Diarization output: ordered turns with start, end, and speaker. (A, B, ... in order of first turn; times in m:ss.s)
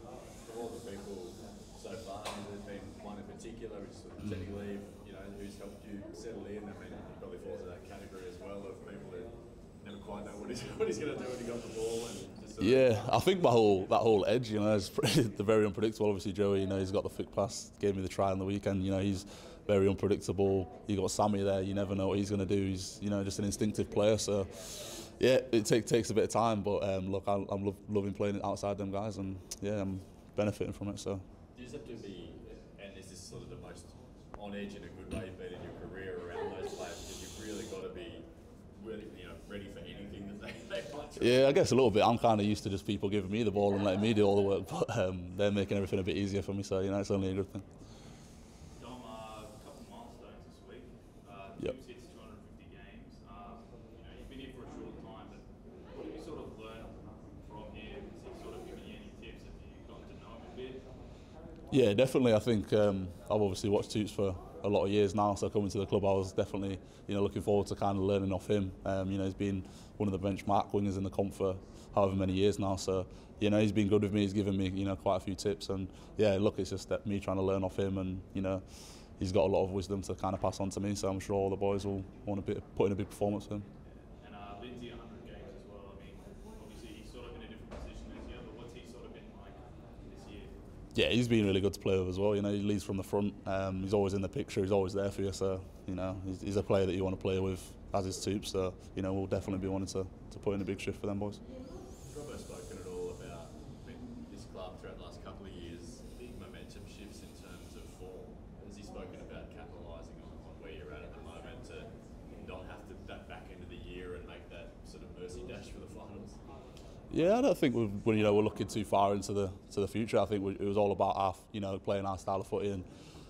0:00.4-0:13.1 A
0:12.6-0:31.2 B
0:31.5-0:41.6 A
0:41.2-0:47.6 B
0:48.8-1:00.9 C
1:01.7-1:23.6 B
1:24.2-1:30.6 C
1:30.9-1:41.4 B
1:42.0-1:56.4 A
1:57.1-2:02.8 B